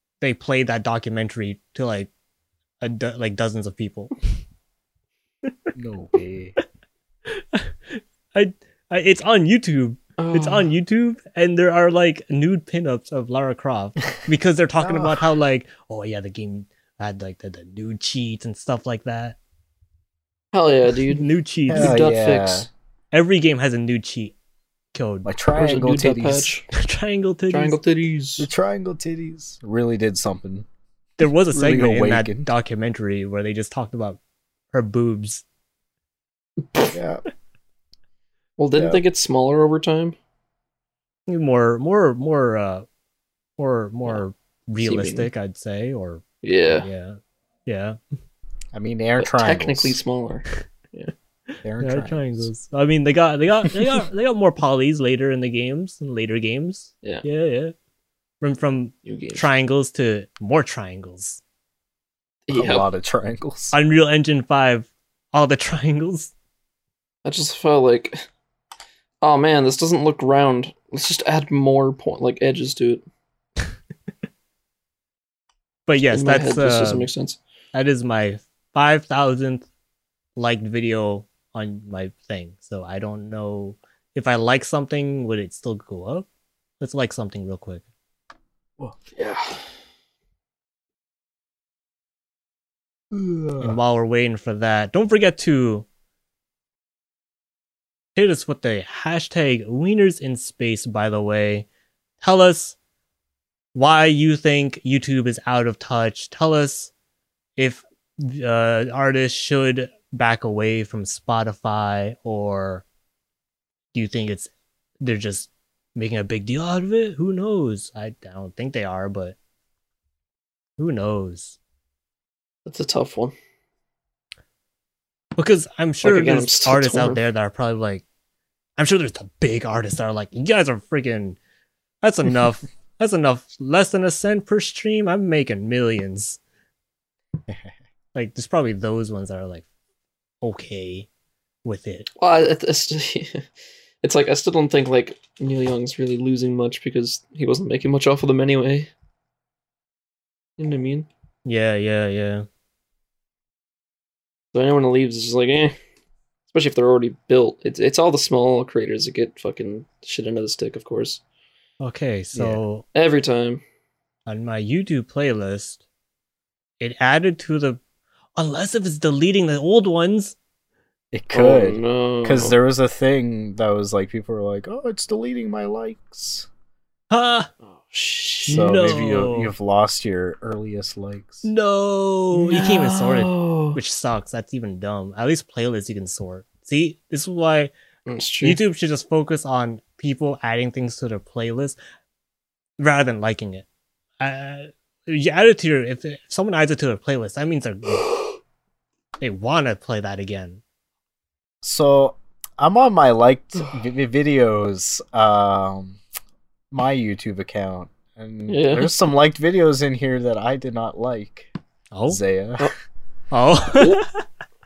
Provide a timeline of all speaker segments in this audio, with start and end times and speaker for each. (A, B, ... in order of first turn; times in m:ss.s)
0:00.2-0:02.1 A
0:02.8-0:04.1 A
0:05.7-0:06.6 B
0:07.3-0:19.4 A
0:10.2-0:10.7 C
0:14.8-0:15.3 B
0:20.5-0:22.7 C
0:21.1-0:22.0 A
0:21.7-0:22.7 B
0:23.1-0:24.3 A
0:24.9-0:25.3 A
0:25.2-0:26.6 B
0:25.5-0:26.6 C
0:26.7-0:27.8 A
0:27.5-0:28.5 C
0:28.4-0:30.6 B
0:31.2-0:34.2 A
0:31.5-0:32.5 B
0:34.7-0:35.4 A
0:36.9-0:37.2 B
0:38.6-0:40.2 C
0:38.8-0:39.0 B
0:41.3-0:42.8 A
0:43.6-0:48.0 A
0:44.8-0:45.3 C
0:46.4-0:46.9 C
0:48.7-0:50.0 B
0:49.2-0:51.1 C
0:51.6-0:52.5 B
0:51.8-0:57.7 A
0:58.4-1:01.4 A
0:59.0-0:59.4 C
1:02.5-1:02.8 C
1:02.5-1:03.8 B
1:03.7-1:06.3 A
1:07.2-1:08.2 C
1:09.2-1:13.0 C
1:15.9-1:17.1 A
1:16.1-1:17.4 C
1:17.7-1:19.6 A
1:20.4-1:26.3 A
1:26.8-1:27.8 A
1:28.8-1:29.1 B
1:29.2-1:29.6 C
1:33.1-1:33.8 B
1:33.6-1:35.8 A
1:38.2-1:41.7 A
1:42.2-1:42.8 A
1:43.7-1:46.9 A
1:47.6-1:52.8 A
1:53.9-1:59.4 A
2:00.8-2:01.6 A
2:02.6-2:03.3 C
2:05.4-2:08.0 A
2:06.0-2:07.2 C
2:08.8-2:11.4 A
2:12.0-2:16.4 A
2:18.1-2:19.6 A
2:20.4-2:21.1 A
2:21.6-2:22.1 A
2:22.2-2:23.4 C
2:24.0-2:28.9 C
2:30.6-2:31.1 C
2:31.4-2:32.5 A
2:34.5-2:35.8 C
2:36.5-2:41.2 C
2:41.8-2:42.8 A
2:42.3-2:42.6 B
2:42.9-2:43.6 C
2:44.2-2:45.8 A
2:46.8-2:47.8 A
2:48.4-2:50.4 A
2:51.1-2:56.5 B
2:51.3-2:52.6 C
2:57.1-2:57.5 A
2:57.6-2:58.8 C
2:58.5-2:59.5 A
2:58.5-3:01.5 B
3:01.4-3:07.7 A
3:02.3-3:03.8 C
3:08.0-3:08.6 C
3:08.4-3:11.8 A
3:12.8-3:13.6 A
3:14.2-3:18.1 A
3:19.2-3:20.6 A
3:21.6-3:26.0 B
3:26.7-3:31.5 B
3:28.5-3:29.0 C
3:31.9-3:32.2 A
3:32.1-3:32.7 B
3:33.3-3:34.2 A